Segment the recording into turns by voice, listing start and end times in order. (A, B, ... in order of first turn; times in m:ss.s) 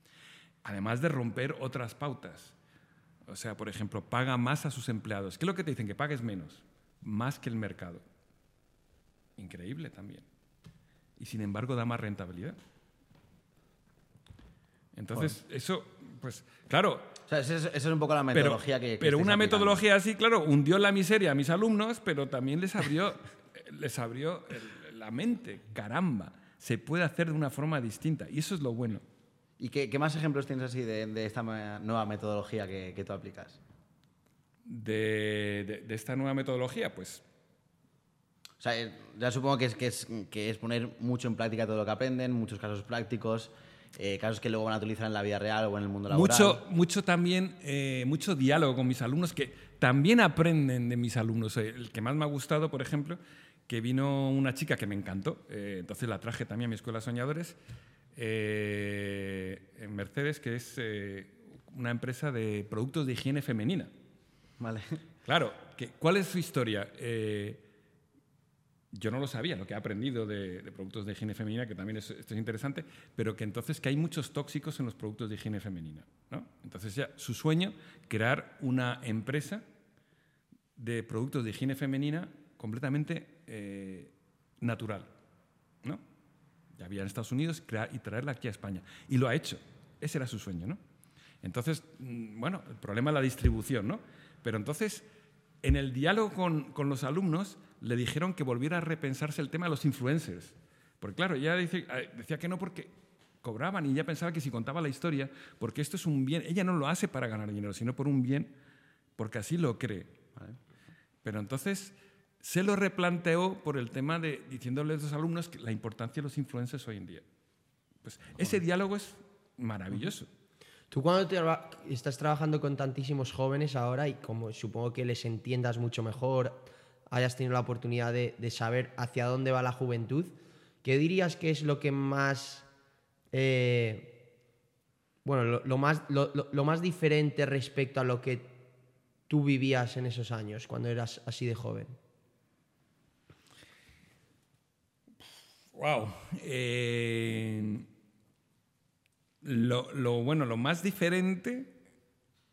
0:00.6-0:02.6 A
0:03.3-0:08.0 A
0:09.4-0:10.3 A
0:11.2-0:12.6 A
0:14.9-0:17.2 A
0:17.3-0:19.8 B
0:18.3-0:29.0 A
0:29.6-0:33.6 B
0:34.7-0:37.2 A
0:38.6-0:46.6 B
0:46.1-0:57.6 A
0:58.2-1:03.9 A
1:04.6-1:05.0 B
1:05.2-1:07.6 A
1:08.9-1:19.6 A
1:20.8-1:25.1 A
1:26.8-1:30.8 A
1:31.4-1:35.1 A
1:35.6-1:42.9 A
1:43.4-1:48.5 A
1:49.2-1:50.2 A
1:51.2-1:57.2 A
1:58.0-2:00.3 A
2:00.9-2:12.7 C
2:13.3-2:14.2 C
2:15.2-2:18.6 C
2:19.3-2:22.0 C
2:25.8-2:27.9 A
2:29.4-2:31.7 A